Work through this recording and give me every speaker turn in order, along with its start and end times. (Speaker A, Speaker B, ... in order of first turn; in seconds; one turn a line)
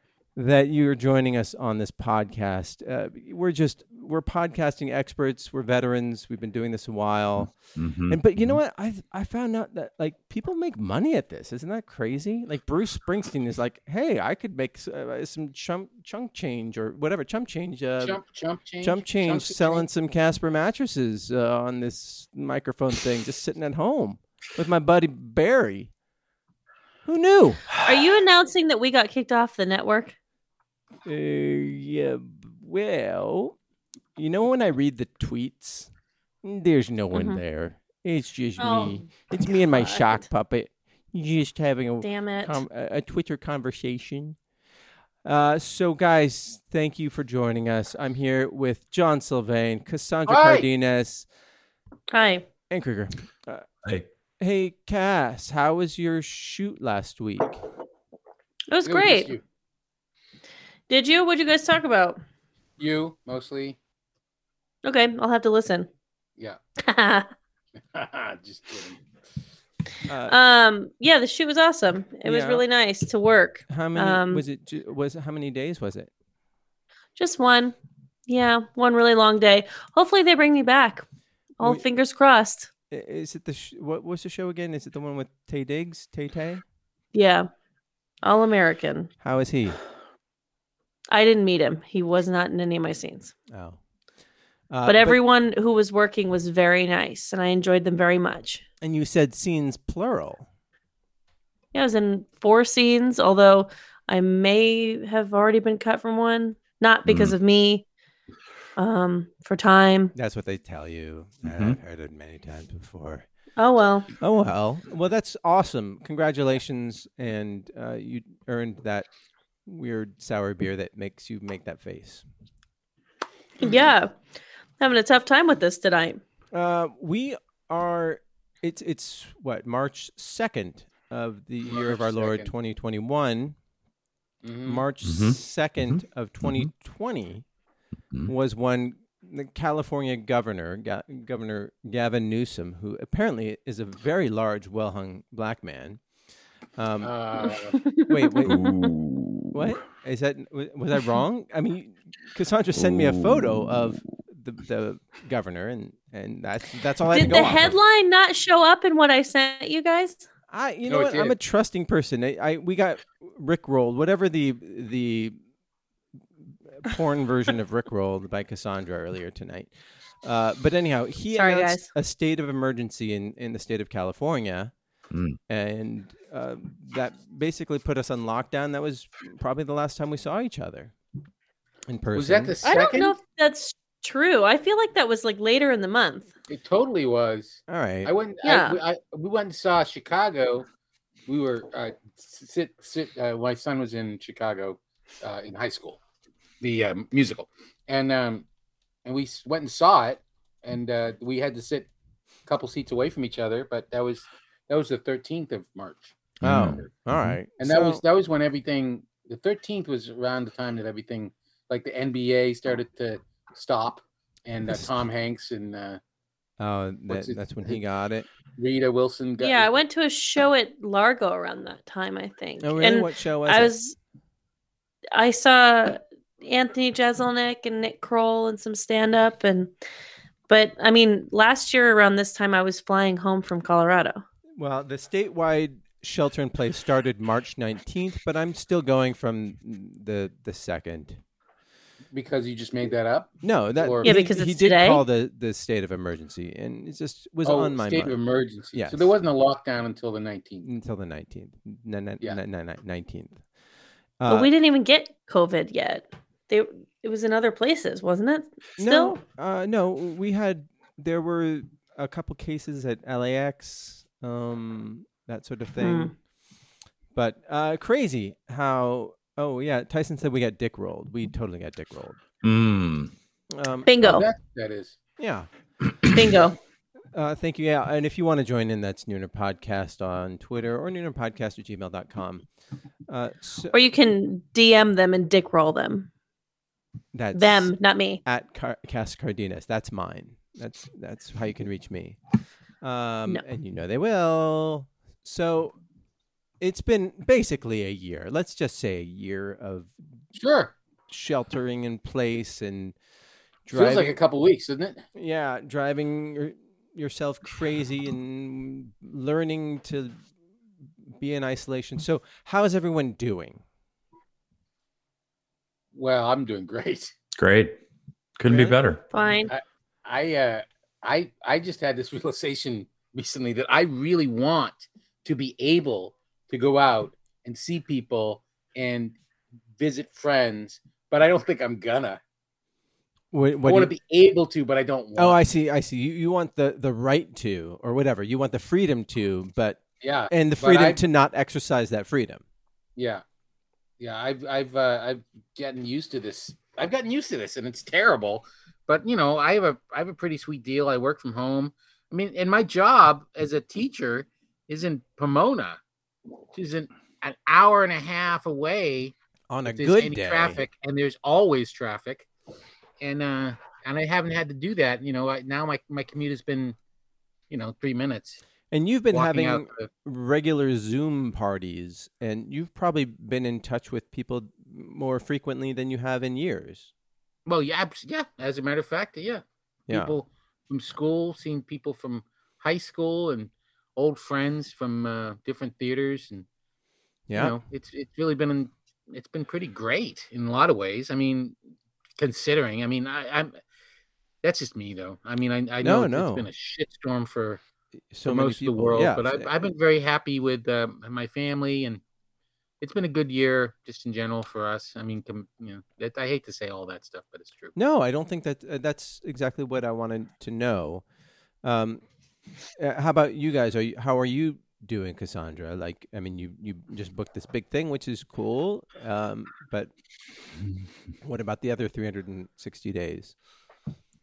Speaker A: 0.3-7.6
Speaker B: 7.6-8.6
Speaker A: 8.1-18.2
Speaker C: 18.0-19.8
Speaker A: 18.8-25.9
Speaker A: 27.0-27.7
Speaker D: 27.8-30.1
Speaker A: 31.1-33.5
Speaker A: 34.1-35.9
Speaker A: 36.4-44.4
Speaker D: 37.1-37.4
Speaker D: 38.6-40.2
Speaker D: 42.0-42.6
Speaker A: 45.2-51.3
Speaker C: 50.3-50.7
Speaker D: 52.1-52.5
Speaker A: 52.7-53.6
Speaker A: 54.4-57.6
Speaker D: 58.7-59.3
Speaker C: 58.8-59.4
Speaker D: 60.9-62.2
Speaker C: 62.8-63.8
Speaker D: 64.8-65.9
Speaker D: 66.8-67.3
Speaker C: 67.9-69.0
Speaker A: 70.1-70.3
Speaker D: 70.3-74.4
Speaker A: 72.2-72.6
Speaker A: 73.7-76.1
Speaker D: 77.2-77.7
Speaker D: 78.3-81.0
Speaker D: 81.6-82.7
Speaker A: 82.9-86.6
Speaker D: 87.1-87.5
Speaker D: 88.2-89.1
Speaker A: 89.2-89.8
Speaker D: 91.1-93.3
Speaker A: 93.5-93.8
Speaker A: 94.7-95.2
Speaker D: 94.8-98.6
Speaker A: 98.8-100.5
Speaker D: 101.7-107.8
Speaker B: 107.0-107.3
Speaker D: 108.8-110.1
Speaker A: 110.1-113.3
Speaker B: 111.4-111.8
Speaker D: 113.6-114.1
Speaker A: 114.2-119.1
Speaker A: 119.7-122.2
Speaker D: 123.6-124.1
Speaker D: 124.8-126.2
Speaker A: 126.5-133.6
Speaker C: 131.7-132.5
Speaker C: 134.4-134.8
Speaker A: 134.7-137.4
Speaker B: 135.0-136.7
Speaker A: 138.2-146.0
Speaker A: 146.8-147.1
Speaker C: 147.0-147.8
Speaker D: 147.7-148.9
Speaker A: 148.1-148.7
Speaker B: 148.4-149.6
Speaker A: 149.5-157.7
Speaker B: 152.7-153.7
Speaker D: 157.1-160.2
Speaker A: 160.5-165.4
Speaker C: 160.9-161.3
Speaker A: 166.7-169.7
Speaker A: 170.2-174.7
Speaker D: 171.3-171.9
Speaker B: 175.1-175.4
Speaker A: 175.5-180.9
Speaker A: 181.9-182.6
Speaker C: 182.1-183.1
Speaker D: 182.6-186.3
Speaker C: 186.5-190.7
Speaker A: 187.7-188.1
Speaker D: 188.4-188.8
Speaker C: 191.3-196.0
Speaker C: 196.6-198.4
Speaker C: 199.0-201.9
Speaker C: 202.4-206.1
Speaker A: 206.4-208.0
Speaker B: 206.4-207.3
Speaker C: 207.6-216.0
Speaker A: 216.6-218.3
Speaker C: 217.1-217.8
Speaker C: 218.6-219.7
Speaker D: 219.4-223.9
Speaker A: 222.6-223.7
Speaker D: 225.1-229.7
Speaker D: 230.5-234.2
Speaker A: 234.6-241.2
Speaker C: 242.1-244.1
Speaker A: 243.4-248.2
Speaker D: 244.0-245.0
Speaker C: 247.4-250.6
Speaker A: 248.7-249.1
Speaker A: 250.6-253.4
Speaker A: 254.2-254.5
Speaker D: 254.3-259.1
Speaker A: 258.8-266.1
Speaker D: 265.8-266.1
Speaker A: 267.1-272.2
Speaker B: 272.4-273.1
Speaker A: 273.5-273.9
Speaker D: 273.8-274.3
Speaker C: 274.0-274.9
Speaker A: 275.2-275.5
Speaker D: 276.1-276.6
Speaker A: 277.1-282.4
Speaker A: 283.1-283.8
Speaker D: 283.7-286.1
Speaker A: 287.1-287.7
Speaker D: 287.3-288.2
Speaker A: 288.2-292.2
Speaker A: 292.8-295.8
Speaker A: 296.6-299.9
Speaker C: 300.3-300.7
Speaker A: 301.1-302.9
Speaker A: 303.6-304.2
Speaker C: 303.7-305.0
Speaker A: 305.1-310.2
Speaker A: 311.2-313.6
Speaker C: 315.9-317.1
Speaker B: 317.4-317.8
Speaker B: 318.4-319.0
Speaker A: 318.5-318.8
Speaker D: 319.1-319.5
Speaker C: 319.5-329.2
Speaker C: 329.8-332.2
Speaker A: 333.3-333.9
Speaker C: 333.6-335.4
Speaker A: 335.2-342.4
Speaker C: 340.0-341.0
Speaker C: 342.9-343.2
Speaker C: 344.0-355.8
Speaker C: 356.5-359.1
Speaker A: 359.5-360.6
Speaker C: 359.6-362.3
Speaker C: 363.0-366.8
Speaker C: 367.5-368.4
Speaker A: 368.7-376.9
Speaker C: 369.1-369.9
Speaker C: 377.4-386.4
Speaker A: 379.9-380.1
Speaker A: 387.3-387.6
Speaker C: 387.3-391.6
Speaker C: 392.2-393.6
Speaker C: 394.4-397.6
Speaker A: 395.8-396.4
Speaker A: 398.1-399.5
Speaker C: 398.2-402.0
Speaker C: 402.8-407.7
Speaker A: 407.7-411.0
Speaker A: 411.6-412.0
Speaker A: 412.8-419.9
Speaker A: 421.2-423.3